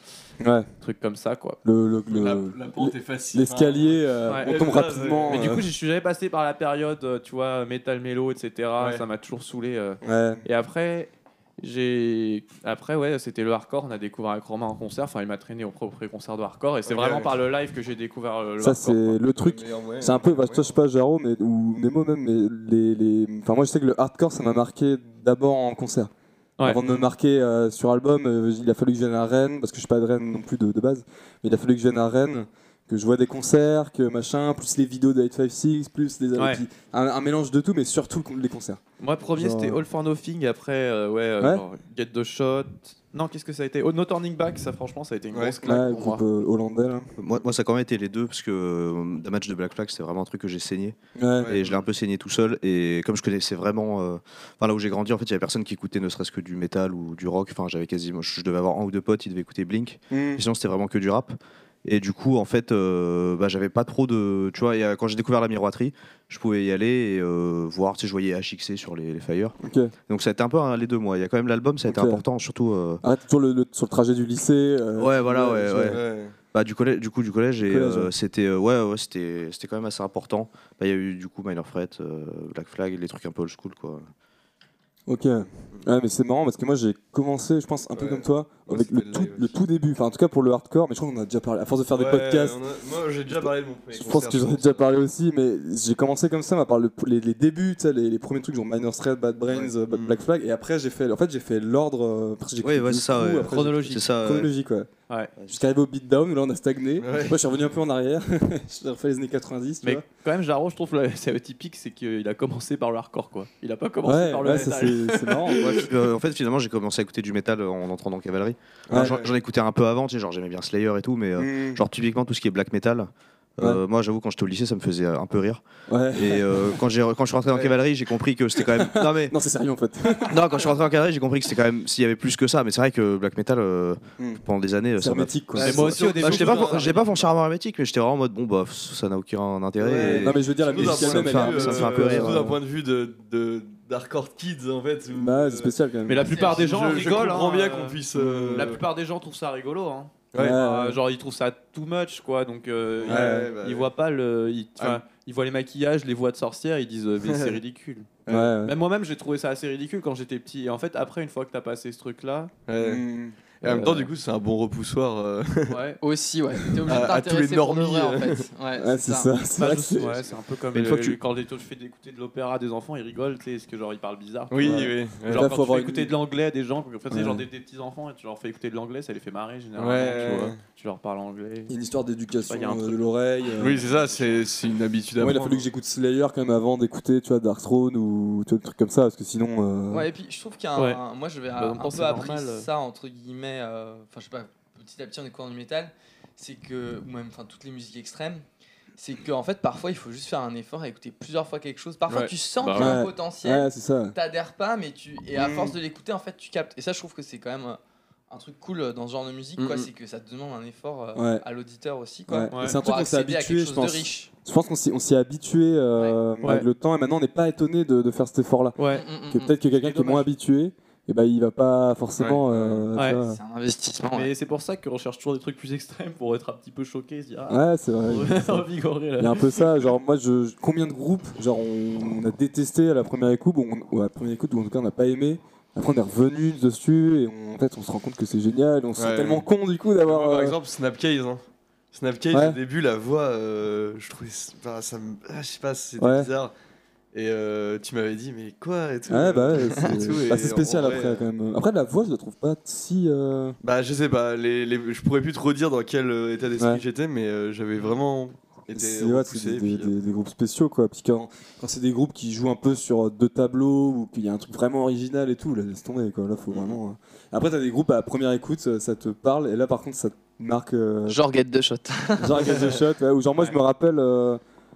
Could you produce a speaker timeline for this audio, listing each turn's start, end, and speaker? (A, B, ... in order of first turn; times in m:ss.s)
0:00.4-0:00.7 A
0:00.8-0:01.6 B
0:01.6-0:05.6 A
0:02.1-0:05.6 C
0:04.3-0:04.5 B
0:05.3-0:19.2 B
0:08.8-0:09.0 C
0:10.0-0:10.4 A
0:16.8-0:17.3 C
0:18.6-0:26.1 A
0:19.4-0:20.6 C
0:26.6-0:38.8 A
0:36.4-0:36.6 B
0:39.0-0:46.2 B
0:39.3-0:39.8 A
0:45.3-0:45.6 C
0:45.6-0:47.1 A
0:47.2-1:09.6 D
0:51.2-0:51.6 A
0:51.4-0:51.8 C
1:00.1-1:00.4 A
1:09.6-1:09.9 A
1:10.1-1:13.0 D
1:11.8-1:12.2 A
1:13.0-1:16.0 A
1:15.0-1:24.0 D
1:15.8-1:16.3 C
1:17.6-1:18.1 A
1:25.1-1:32.6 A
1:27.9-1:29.5 C
1:31.9-1:34.8 C
1:33.3-1:44.9 A
1:39.5-1:40.2 C
1:42.6-1:44.5 D
1:43.4-1:44.0 B
1:45.5-1:50.0 A
1:47.0-1:47.4 C
1:49.8-1:55.6 B
1:54.0-1:55.8 A
1:55.6-2:09.3 D
1:58.9-1:59.3 C
1:58.9-1:59.2 A
2:01.4-2:01.8 A
2:05.9-2:06.8 A
2:08.6-2:10.4 A
2:10.2-2:22.5 D
2:15.0-2:16.0 A
2:15.5-2:17.1 C
2:15.6-2:17.2 B
2:19.8-2:25.7 C
2:19.9-2:22.6 A
2:25.1-2:26.2 A
2:26.1-2:28.0 B
2:26.3-2:26.6 E
2:26.3-2:28.8 C
2:28.1-2:28.7 A
2:28.5-2:38.1 B
2:30.3-2:30.6 C
2:30.4-2:31.0 A
2:33.0-2:33.9 C
2:33.0-2:33.5 A
2:34.8-2:35.0 C
2:37.2-2:37.6 C
2:38.3-2:38.5 C
2:38.3-2:38.7 A
2:38.6-2:42.5 B
2:42.7-2:43.0 C
2:42.8-2:43.4 A
2:43.6-2:45.8 C
2:43.7-2:44.1 B
2:45.7-2:46.0 B
2:46.0-2:49.3 E
2:46.8-2:48.5 C
2:48.8-2:50.2 A
2:49.6-3:01.7 B
2:50.7-2:51.2 D
2:54.5-2:55.5 C
2:54.6-2:56.1 A
2:57.1-2:57.4 A
2:59.8-3:00.6 C
3:01.7-3:03.8 A
3:02.5-3:03.0 B
3:03.6-3:04.4 B
3:03.6-3:05.7 C
3:05.2-3:10.1 A
3:09.9-3:18.4 E
3:10.8-3:11.0 B
3:11.6-3:12.7 B
3:19.0-3:27.8 E
3:22.1-3:22.3 C
3:22.6-3:23.0 B
3:22.8-3:24.2 A
3:25.4-3:25.7 A
3:28.3-3:34.3 E
3:29.6-3:29.9 C
3:31.1-3:31.4 A
3:32.3-3:38.8 A
3:32.5-3:32.8 B
3:38.8-3:39.0 B
3:38.9-3:39.5 E
3:39.3-3:43.4 A
3:39.8-3:40.2 B
3:42.2-3:42.9 C
3:42.9-3:43.2 B
3:43.0-3:44.3 E
3:44.1-3:49.6 B
3:47.5-3:48.7 A
3:49.2-4:00.6 A
3:59.0-3:59.4 C
4:00.0-4:06.5 C
4:02.3-4:02.6 A
4:06.0-4:06.3 A
4:07.1-4:11.2 C
4:09.1-4:13.6 A
4:13.6-4:19.9 C
4:18.7-4:31.2 A
4:26.5-4:26.8 C
4:31.1-4:32.6 E
4:32.2-4:34.4 A